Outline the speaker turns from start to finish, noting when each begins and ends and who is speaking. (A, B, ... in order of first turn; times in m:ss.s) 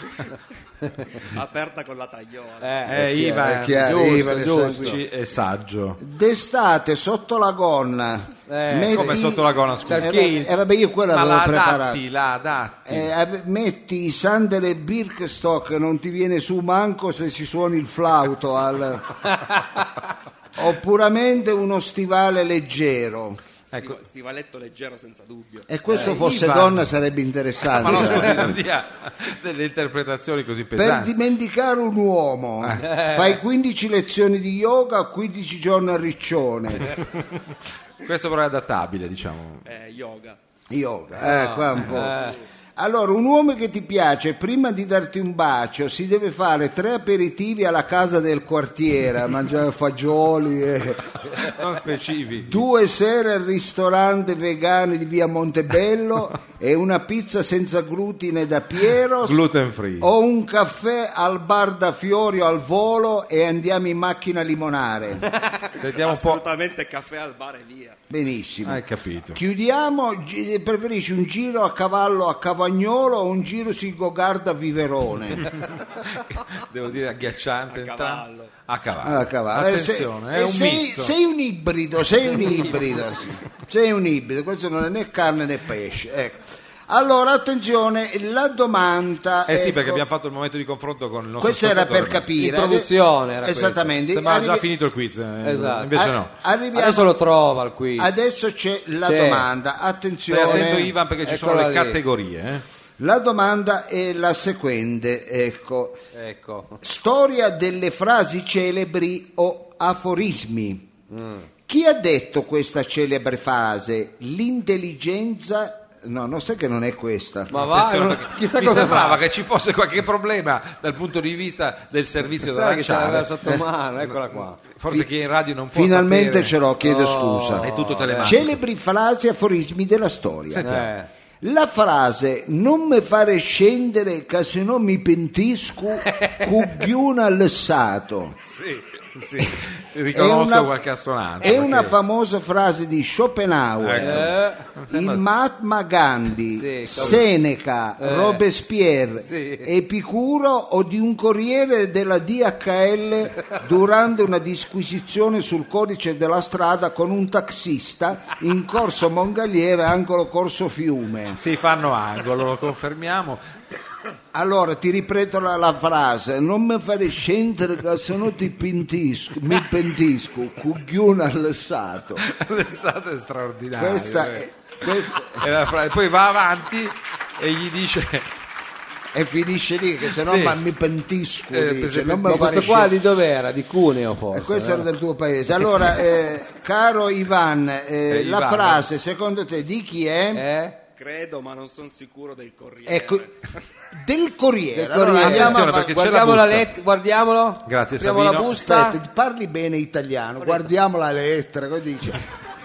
0:01.4-0:02.7 A
0:02.6-0:03.2 B
0:02.8-0:05.0 C
0:02.8-0:06.0 D
0:04.0-0:05.0 B
0:06.0-0:12.0 C
0:08.5-0:09.3 B
0:08.9-0:10.3 D
0:09.9-0:10.5 B
0:11.1-0:13.1 D
0:12.9-0:19.2 C
0:20.6-0:23.4 C
0:23.7-0:24.0 D
0:23.8-0:25.6 A
0:25.7-0:28.6 C
0:26.0-0:26.8 D
0:27.7-0:31.1 D
0:28.0-0:28.5 B
0:30.8-0:36.9 C
0:32.8-0:33.4 B
0:36.8-0:37.4 D
0:38.0-0:39.6 D
0:39.7-0:40.4 A
0:40.7-0:51.1 C
0:41.2-0:42.4 B
0:51.3-0:52.6 D
0:52.5-0:59.4 C
0:59.2-1:00.1 D
1:00.0-1:05.3 C
1:05.8-1:06.5 D
1:06.0-1:08.0 A
1:08.1-1:15.5 C
1:08.6-1:09.4 D
1:15.6-1:21.1 D
1:17.8-1:18.5 A
1:19.0-1:30.0 C
1:29.5-1:32.3 D
1:31.4-1:34.6 C
1:32.4-1:33.9 B
1:34.1-1:36.3 D
1:35.4-1:36.0 B
1:35.9-1:37.1 C
1:36.7-1:38.1 B
1:38.0-1:40.9 C
1:39.0-1:39.5 B
1:40.3-1:42.6 D
1:40.3-1:42.0 B
1:43.0-1:46.0 C
1:46.1-1:46.8 B
1:46.8-1:50.9 C
1:51.1-1:51.4 B
1:51.7-1:57.5 C
1:57.5-1:59.2 B
1:57.5-2:06.5 D
2:02.3-2:04.6 B
2:05.7-2:10.7 C
2:06.8-2:08.4 B
2:07.6-2:08.5 D
2:10.5-2:10.9 D
2:10.6-2:11.1 B
2:11.4-2:18.4 C
2:18.5-2:21.9 D
2:20.1-2:20.7 C
2:21.4-2:24.3 C
2:21.6-2:21.9 B
2:23.8-2:25.3 D
2:24.0-2:24.6 B
2:24.9-2:41.4 C
2:26.5-2:27.3 B
2:28.0-2:28.4 B
2:29.3-2:29.7 B
2:41.4-2:43.4 D
2:44.3-2:52.3 C
2:52.2-2:54.5 D
2:53.8-2:55.4 C
2:55.3-2:58.3 D
2:59.1-3:02.9 C
3:00.1-3:00.6 D
3:01.5-3:02.9 D
3:02.3-3:04.9 B
3:04.3-3:10.4 C
3:08.1-3:08.8 D
3:10.3-3:10.8 B
3:11.0-3:13.3 A
3:12.9-3:13.3 C
3:14.0-3:15.8 C
3:14.7-3:19.0 B
3:15.2-3:16.7 D
3:17.7-3:18.6 D
3:18.6-3:22.3 C